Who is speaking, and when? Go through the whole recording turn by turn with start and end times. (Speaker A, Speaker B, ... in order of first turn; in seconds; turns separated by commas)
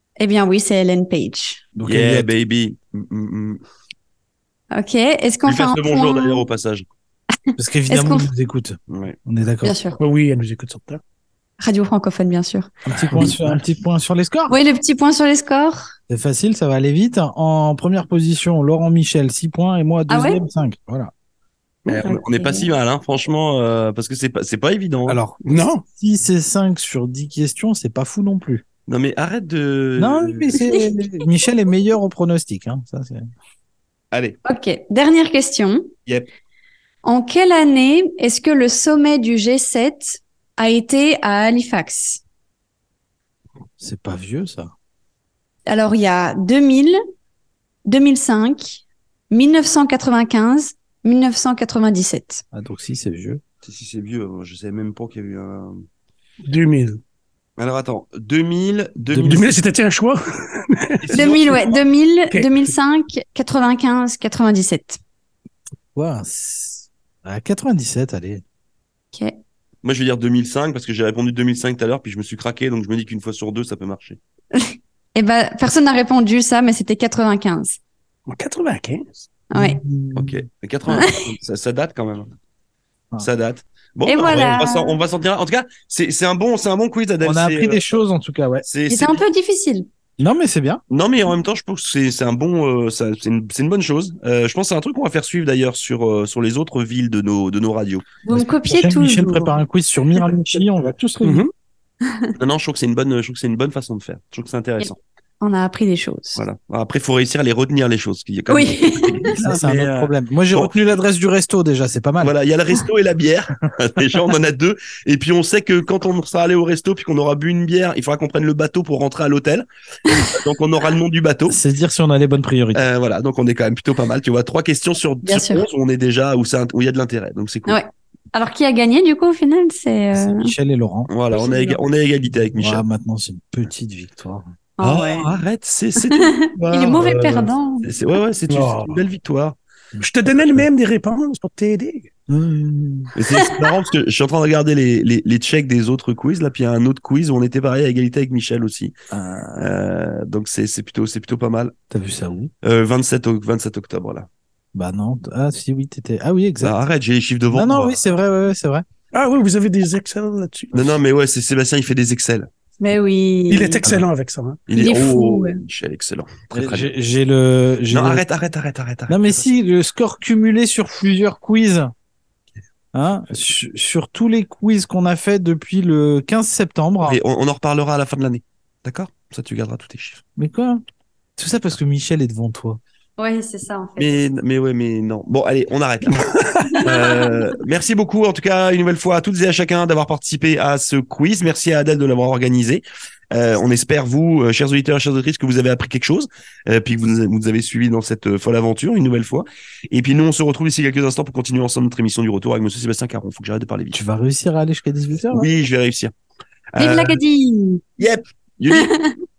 Speaker A: 0.2-1.6, Speaker B: 1.7-2.3, Speaker C: 1.8-3.6, Speaker A: 4.7-6.4, Speaker C: 5.4-6.8, Speaker B: 7.6-9.7, Speaker A: 7.9-8.3, Speaker C: 8.9-9.2, Speaker A: 9.6-10.0, Speaker D: 10.0-11.0, Speaker A: 11.6-12.7, Speaker B: 12.8-14.6, Speaker D: 12.9-13.6, Speaker A: 14.5-15.9, Speaker B: 16.1-21.1, Speaker A: 20.1-20.4, Speaker C: 21.9-25.2, Speaker A: 21.9-22.7, Speaker B: 25.1-28.6, Speaker D: 25.4-25.8, Speaker C: 28.9-30.7, Speaker B: 30.0-33.3, Speaker A: 30.6-30.9, Speaker C: 34.1-34.4, Speaker A: 34.4-35.9, Speaker A: 37.0-42.2, Speaker B: 43.8-44.7, Speaker A: 45.7-47.0, Speaker A: 47.9-52.4, Speaker B: 52.5-53.4, Speaker C: 53.6-55.8, Speaker D: 56.4-57.0, Speaker C: 57.6-59.5, Speaker B: 59.1-59.5, Speaker D: 59.1-61.3, Speaker C: 61.0-61.8, Speaker A: 61.1-65.0, Speaker B: 65.9-68.4, Speaker C: 69.8-74.2, Speaker A: 74.5-77.8, Speaker D: 78.3-79.2, Speaker A: 79.5-79.8, Speaker B: 79.5-80.4, Speaker C: 80.2-82.3, Speaker A: 80.9-81.1, Speaker C: 83.2-87.8, Speaker A: 84.0-85.0, Speaker B: 87.2-88.6, Speaker C: 88.6-89.2, Speaker A: 88.9-89.8, Speaker B: 90.2-90.8, Speaker C: 90.9-98.1, Speaker A: 98.2-99.6, Speaker B: 98.3-101.4, Speaker D: 101.2-101.5, Speaker C: 102.3-105.0, Speaker A: 104.8-106.4, Speaker C: 106.3-110.7, Speaker A: 108.5-109.3, Speaker B: 109.3-112.3, Speaker C: 112.2-119.7, Speaker C: 120.3-121.6, Speaker B: 121.5-122.8, Speaker C: 122.7-127.8, Speaker A: 125.2-125.7, Speaker A: 127.7-130.5, Speaker B: 130.1-131.1, Speaker C: 131.1-132.8, Speaker A: 131.3-131.8, Speaker B: 132.5-134.5, Speaker A: 134.8-135.4, Speaker C: 134.8-139.6, Speaker A: 136.0-137.9, Speaker D: 138.5-139.0, Speaker D: 140.0-142.1, Speaker B: 142.3-143.1, Speaker C: 143.2-148.9, Speaker B: 149.1-149.7, Speaker C: 149.6-151.7, Speaker B: 151.9-152.5, Speaker C: 152.6-154.3, Speaker B: 154.7-156.8, Speaker C: 156.6-158.0, Speaker B: 157.5-158.8, Speaker D: 159.1-160.9, Speaker C: 160.7-162.5, Speaker A: 162.8-163.8, Speaker D: 163.5-164.6, Speaker C: 164.7-166.9, Speaker A: 164.7-165.6, Speaker B: 166.5-168.2, Speaker C: 167.9-169.5, Speaker B: 169.1-171.9, Speaker B: 172.9-177.2, Speaker C: 177.0-180.2, Speaker B: 180.4-180.8, Speaker B: 181.4-182.8, Speaker A: 183.2-184.2, Speaker C: 184.0-186.3, Speaker A: 186.7-187.4, Speaker C: 186.8-204.0, Speaker B: 203.9-205.5, Speaker C: 205.3-206.1, Speaker C: 206.7-207.2, Speaker A: 206.8-208.0, Speaker C: 208.0-208.9, Speaker A: 208.7-209.1